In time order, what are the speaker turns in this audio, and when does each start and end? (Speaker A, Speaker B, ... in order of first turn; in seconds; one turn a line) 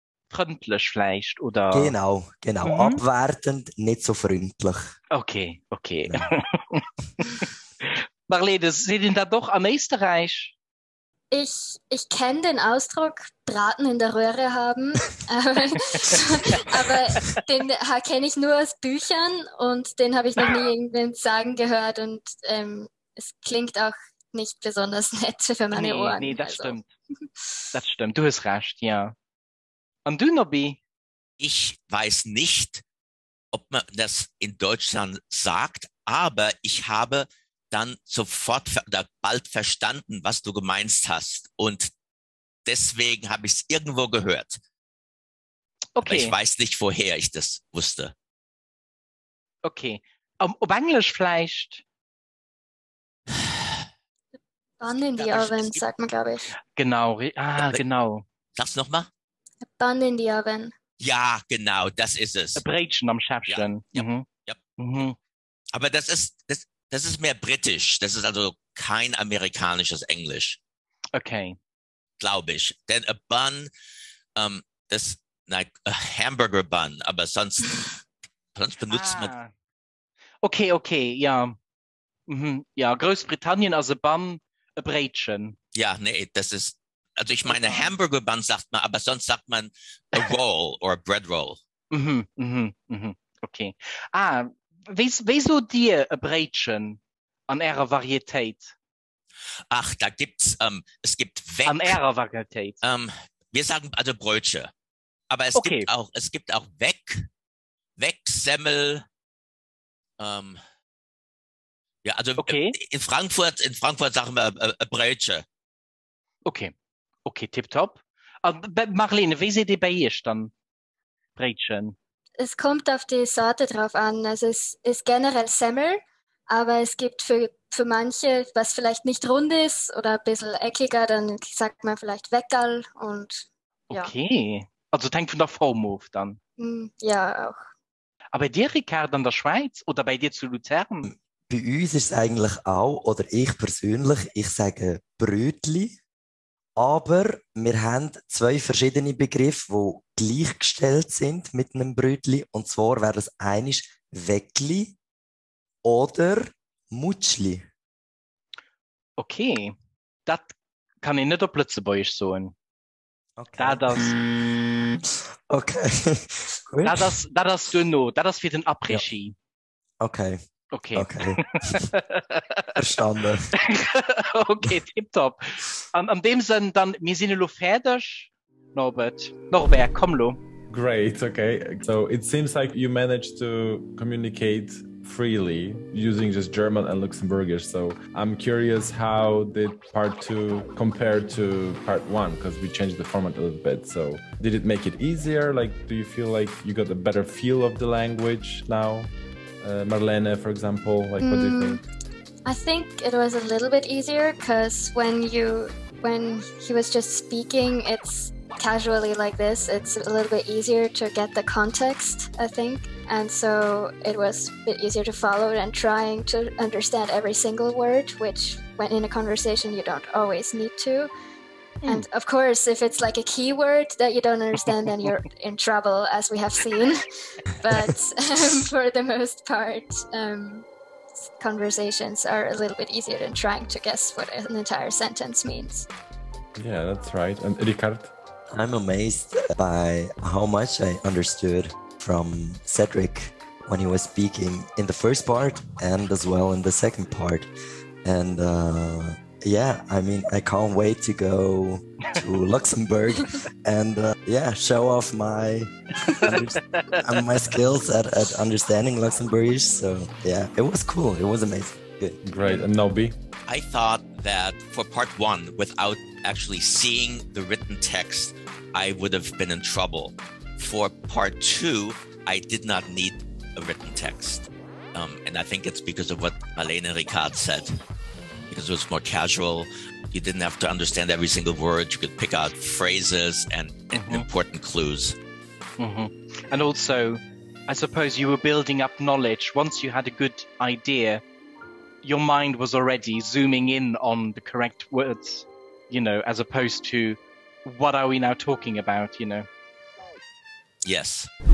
Speaker A: 0.3-1.9
Speaker B: 1.7-4.9
Speaker A: 2.6-3.0
Speaker A: 5.1-10.5
Speaker C: 11.3-26.8
Speaker A: 16.0-16.8
Speaker A: 25.7-26.9
Speaker A: 27.7-29.1
Speaker A: 30.1-30.8
Speaker D: 31.4-32.8
Speaker D: 33.5-41.9
Speaker D: 42.6-44.6
Speaker A: 46.0-46.3
Speaker D: 46.0-48.1
Speaker A: 49.6-51.8
Speaker C: 54.8-56.5
Speaker D: 55.2-55.8
Speaker A: 56.8-58.2
Speaker D: 58.5-59.1
Speaker C: 59.6-60.7
Speaker D: 61.0-62.6
Speaker A: 62.6-64.2
Speaker D: 63.5-64.6
Speaker A: 64.8-65.2
Speaker D: 65.7-70.6
Speaker A: 71.1-71.6
Speaker D: 72.2-73.7
Speaker D: 74.3-77.9
Speaker D: 78.5-79.3
Speaker A: 78.9-79.5
Speaker A: 80.4-81.5
Speaker A: 82.3-85.6
Speaker D: 85.7-91.6
Speaker A: 87.5-87.9
Speaker A: 91.9-98.7
Speaker D: 99.7-102.0
Speaker A: 101.7-102.8
Speaker D: 102.8-104.7
Speaker D: 105.3-107.2
Speaker A: 105.5-105.9
Speaker D: 108.0-109.0
Speaker D: 110.2-110.6
Speaker D: 112.0-115.4
Speaker A: 112.4-112.7
Speaker A: 116.4-116.7
Speaker A: 117.2-120.5
Speaker A: 121.4-122.0
Speaker C: 122.4-134.1
Speaker A: 133.9-136.4
Speaker C: 136.6-137.6
Speaker A: 138.3-141.1
Speaker B: 141.0-146.0
Speaker B: 146.8-155.0
Speaker B: 155.8-157.6
Speaker A: 159.2-159.7
Speaker A: 160.2-162.5
Speaker B: 163.4-164.2
Speaker A: 163.6-164.2
Speaker B: 165.0-167.2
Speaker A: 166.8-169.3
Speaker B: 170.0-170.4
Speaker A: 170.7-172.8
Speaker B: 170.9-171.4
Speaker B: 172.8-173.4
Speaker A: 173.6-180.4
Speaker E: 180.7-201.8
Speaker C: 201.2-201.8
Speaker C: 202.4-221.1
Speaker C: 221.8-227.0
Speaker C: 227.6-230.7
Speaker C: 231.2-235.9
Speaker E: 236.6-238.1
Speaker B: 238.5-247.5
Speaker B: 248.0-262.2
Speaker A: 256.3-257.0
Speaker E: 262.2-263.1
Speaker D: 263.5-277.8
Speaker D: 278.5-285.2
Speaker A: 283.9-284.3
Speaker A: 285.8-291.2
Speaker A: 292.0-299.5
Speaker D: 300.8-301.3